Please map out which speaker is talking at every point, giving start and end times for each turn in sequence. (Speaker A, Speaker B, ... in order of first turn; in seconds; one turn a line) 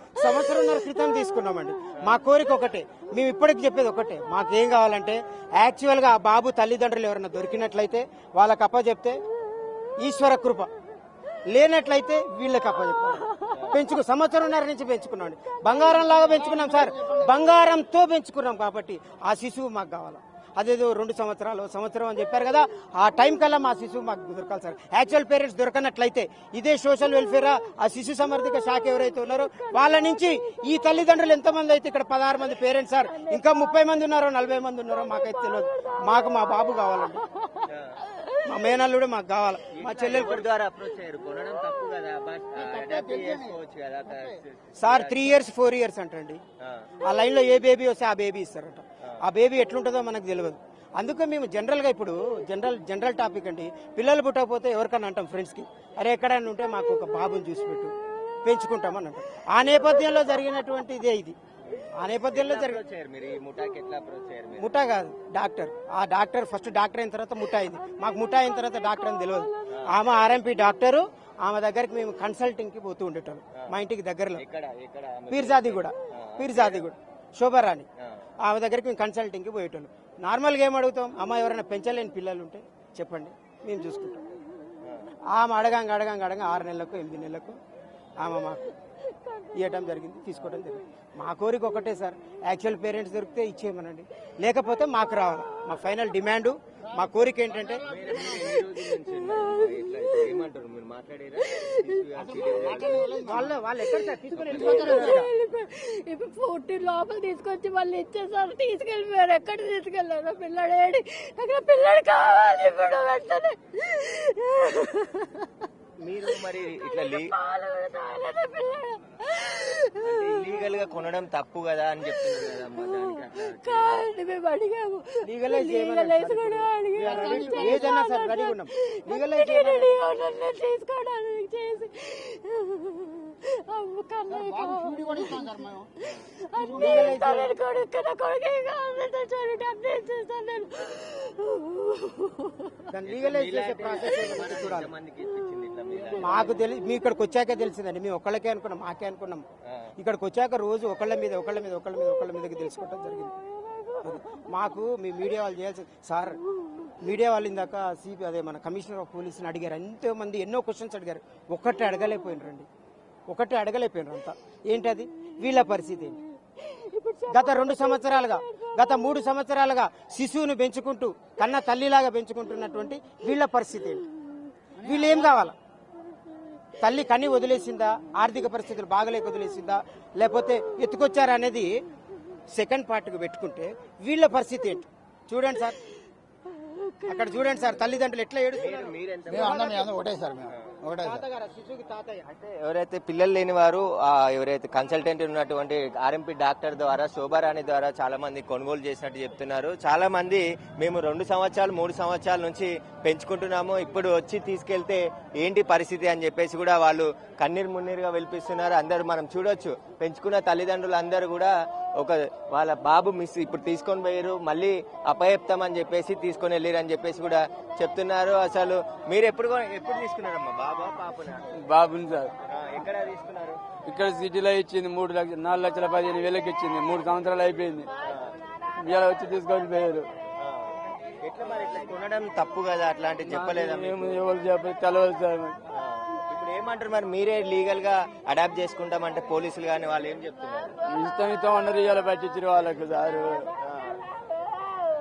Speaker A: 0.1-9.2
Speaker A: 10.0-10.7
Speaker A: 11.5-37.2
Speaker B: 13.5-13.8
Speaker C: 16.8-17.2
Speaker D: 33.2-33.7
Speaker D: 35.1-38.5
Speaker B: 37.7-38.0
Speaker A: 38.4-40.5
Speaker B: 39.7-45.4
Speaker C: 42.7-43.4
Speaker A: 44.8-46.4
Speaker B: 46.6-46.9
Speaker A: 47.0-57.9
Speaker A: 58.4-61.4
Speaker B: 61.7-64.8
Speaker A: 62.0-62.8
Speaker A: 64.6-74.4
Speaker B: 74.3-76.8
Speaker A: 75.3-77.9
Speaker A: 78.4-84.2
Speaker A: 85.3-87.6
Speaker A: 88.2-88.7
Speaker A: 89.6-97.9
Speaker B: 97.8-103.3
Speaker C: 102.2-103.4
Speaker A: 103.1-105.3
Speaker D: 104.5-115.6
Speaker B: 116.0-117.3
Speaker D: 116.8-120.5
Speaker B: 120.0-124.1
Speaker D: 122.9-135.7
Speaker A: 125.2-130.0
Speaker C: 127.1-127.8
Speaker C: 134.3-135.9
Speaker D: 136.5-142.8
Speaker C: 136.6-137.1
Speaker A: 136.8-137.6
Speaker A: 142.9-144.9
Speaker B: 143.1-146.6
Speaker A: 146.2-149.4
Speaker A: 150.0-153.3
Speaker A: 154.0-156.4
Speaker A: 157.0-162.7
Speaker A: 163.3-166.2
Speaker D: 166.6-168.4
Speaker A: 167.3-174.0
Speaker A: 174.8-175.6
Speaker A: 176.8-181.7
Speaker A: 182.5-185.8
Speaker D: 186.5-187.7
Speaker A: 187.1-190.2
Speaker B: 188.5-189.8
Speaker C: 189.3-191.2
Speaker B: 190.5-190.8
Speaker A: 190.9-192.2
Speaker B: 192.2-221.5
Speaker E: 221.6-222.3
Speaker B: 222.5-223.6
Speaker E: 223.9-227.9
Speaker B: 228.0-228.3
Speaker E: 228.8-230.1
Speaker B: 230.4-234.2
Speaker E: 233.3-235.6
Speaker B: 235.7-240.8
Speaker E: 240.9-243.5
Speaker B: 243.6-244.0